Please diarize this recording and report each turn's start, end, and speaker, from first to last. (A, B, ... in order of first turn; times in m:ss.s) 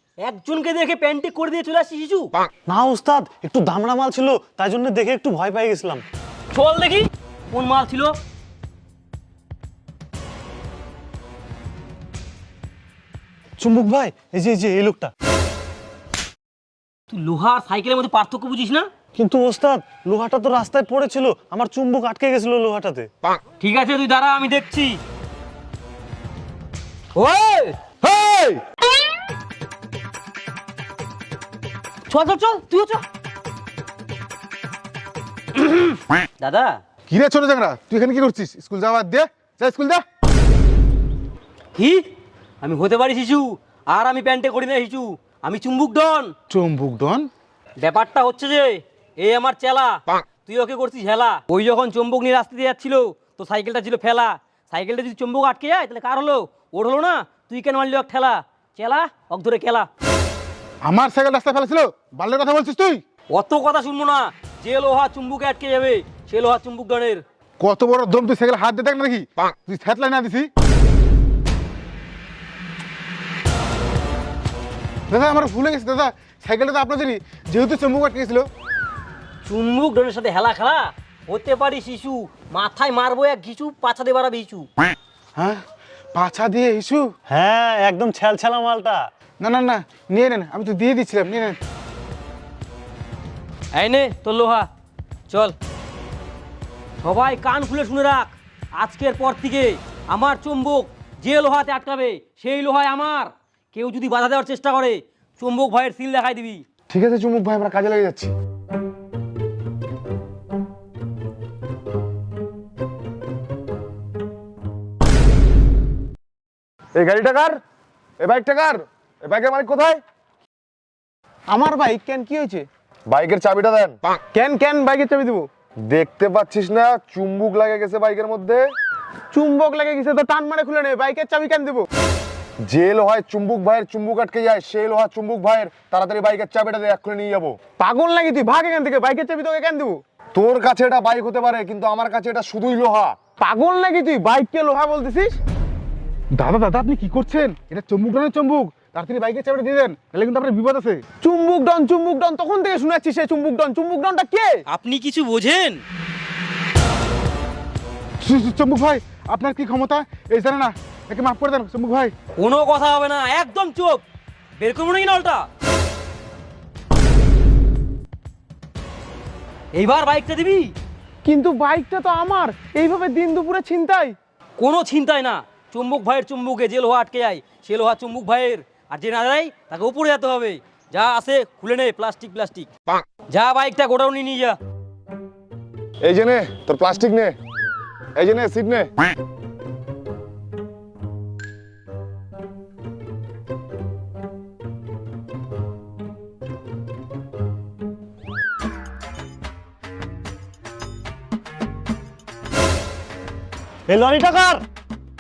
0:00.2-0:02.4 A
0:02.7-0:06.0 B
0:06.5-0:08.2 A
0:13.6-0:15.1 B
0:17.1-0:18.9 A
0:19.2-0:23.1 B
0:23.6-0:25.0 A
0:27.2-0:27.8 A
0:28.1-0:28.5 C
0:32.1-0:33.0 A
0:35.6-0:36.8 A
0:37.1-0:40.0 D
0:41.8-0:42.0 A
0:42.6-0:46.3 A
0:46.5-0:47.3 D
0:47.8-0:59.9 A
1:00.8-1:03.0 D
1:03.3-1:07.2 A
1:07.6-1:10.5 D
1:15.1-1:18.5 D
1:19.4-1:24.7 A
1:26.1-1:27.1 D
1:27.3-1:29.0 B
1:29.4-1:31.6 D
1:33.7-1:34.7 A
1:35.3-1:35.6 A
1:37.0-1:46.6 A
1:46.9-1:48.3 C
1:57.0-1:57.6 C
1:58.2-2:00.0 C
2:01.5-2:02.7 E
2:03.1-2:04.0 C
2:04.3-2:05.5 E
2:05.9-2:08.7 C
2:09.3-2:11.9 E
2:12.7-2:17.6 C
2:17.8-2:20.0 E
2:20.4-2:23.2 C
2:23.4-2:25.4 E
2:26.4-2:31.0 D
2:31.2-2:34.6 E
2:34.7-2:35.8 A
2:38.2-2:42.1 D
2:42.4-2:44.0 A
2:44.6-2:45.5 A
2:49.7-2:50.7 A
2:51.2-2:54.2 E
2:54.6-3:02.7 A
3:03.3-3:04.6 A
3:06.0-3:07.3 C
3:08.2-3:08.9 C
3:23.9-3:24.6 B